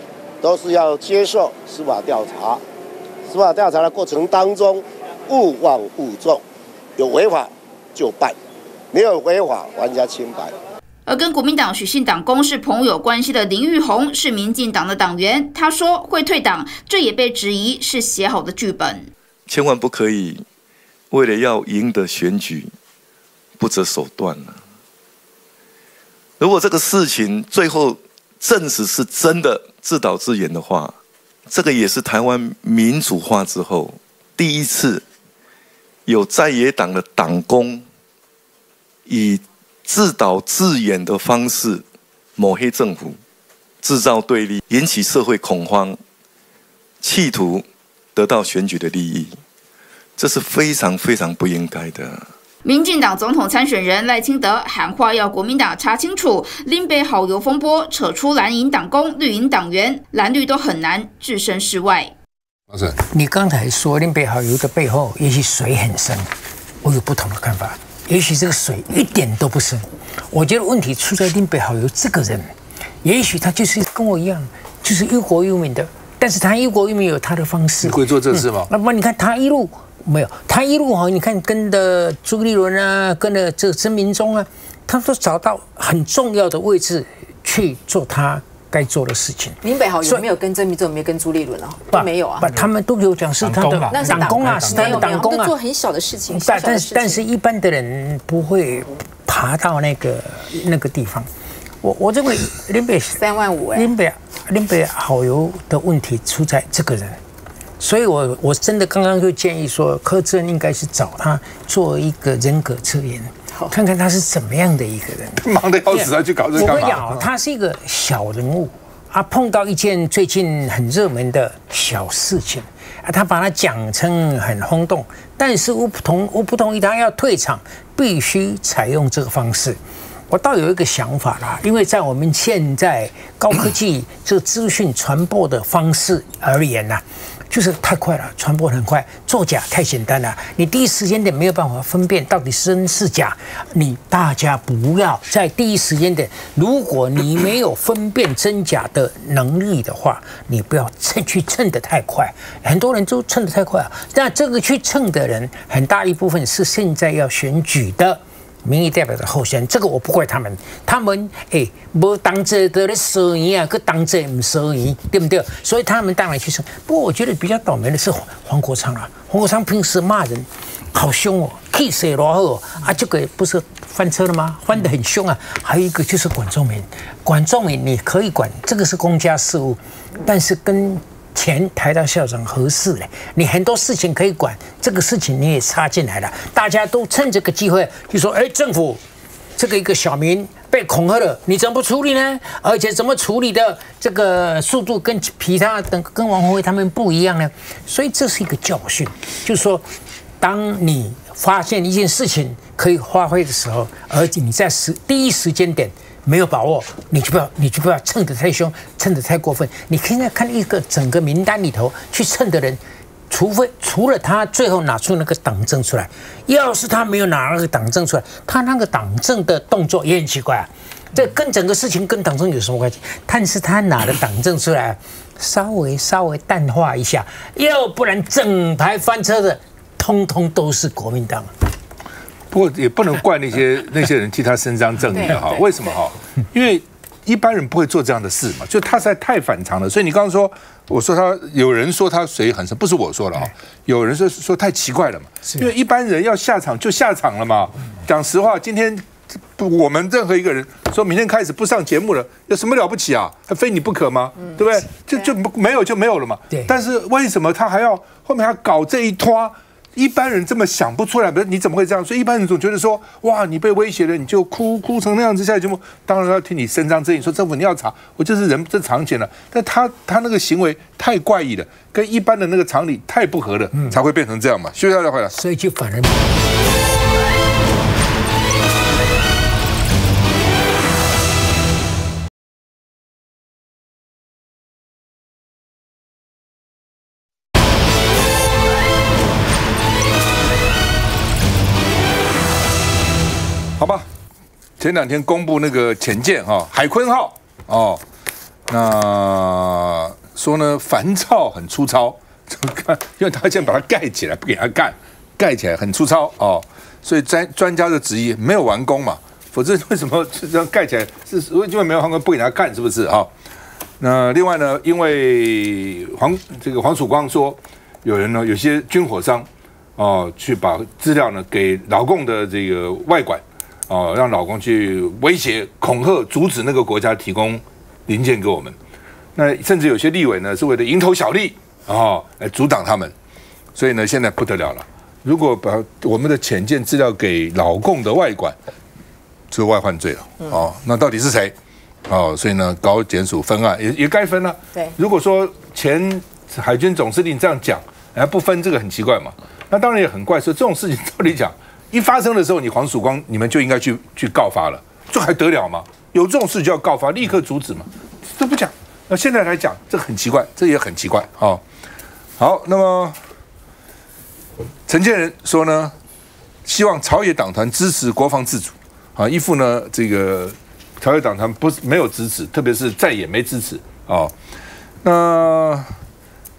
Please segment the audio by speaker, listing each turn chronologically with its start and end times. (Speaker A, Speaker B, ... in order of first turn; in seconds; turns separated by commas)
Speaker A: 0.4-2.6, Speaker A: 3.3-6.4, Speaker A: 7.0-8.4, Speaker A: 8.9-10.6, Speaker B: 11.1-19.1, Speaker C: 19.5-20.4, Speaker C: 21.1-22.7, Speaker C: 23.6-24.6, Speaker C: 26.4-31.0, Speaker C: 31.5-35.0, Speaker C: 36.1-37.9, Speaker C: 39.1-41.8, Speaker C: 42.4-43.2, Speaker C: 43.8-46.0, Speaker C: 47.0-49.4, Speaker C: 50.2-52.3, Speaker B: 52.6-62.1, Speaker D: 63.1-66.3, Speaker D: 66.8-90.2, Speaker E: 77.8-78.7, Speaker F: 89.6-92.5, Speaker D: 91.9-95.5, Speaker E: 93.4-95.1, Speaker F: 93.9-97.2, Speaker D: 96.3-101.3, Speaker D: 101.8-103.2, Speaker F: 103.2-103.9, Speaker D: 103.7-107.2, Speaker D: 107.8-189.0, Speaker E: 115.4-117.2, Speaker D: 189.6-199.8, Speaker D: 200.4-231.5, Speaker E: 232.5-275.3, Speaker F: 235.2-235.6, Speaker D: 275.3-276.3, Speaker E: 293.8-294.1, Speaker E: 294.8-298.0, Speaker E: 298.7-313.3, Speaker E: 314.0-328.8, Speaker E: 329.4-333.1, Speaker E: 333.8-338.6, Speaker E: 339.5-341.5, Speaker E: 342.1-361.6, Speaker E: 362.4-363.2, Speaker E: 364.9-365.9, Speaker E: 366.6-374.3, Speaker E: 375.0-375.9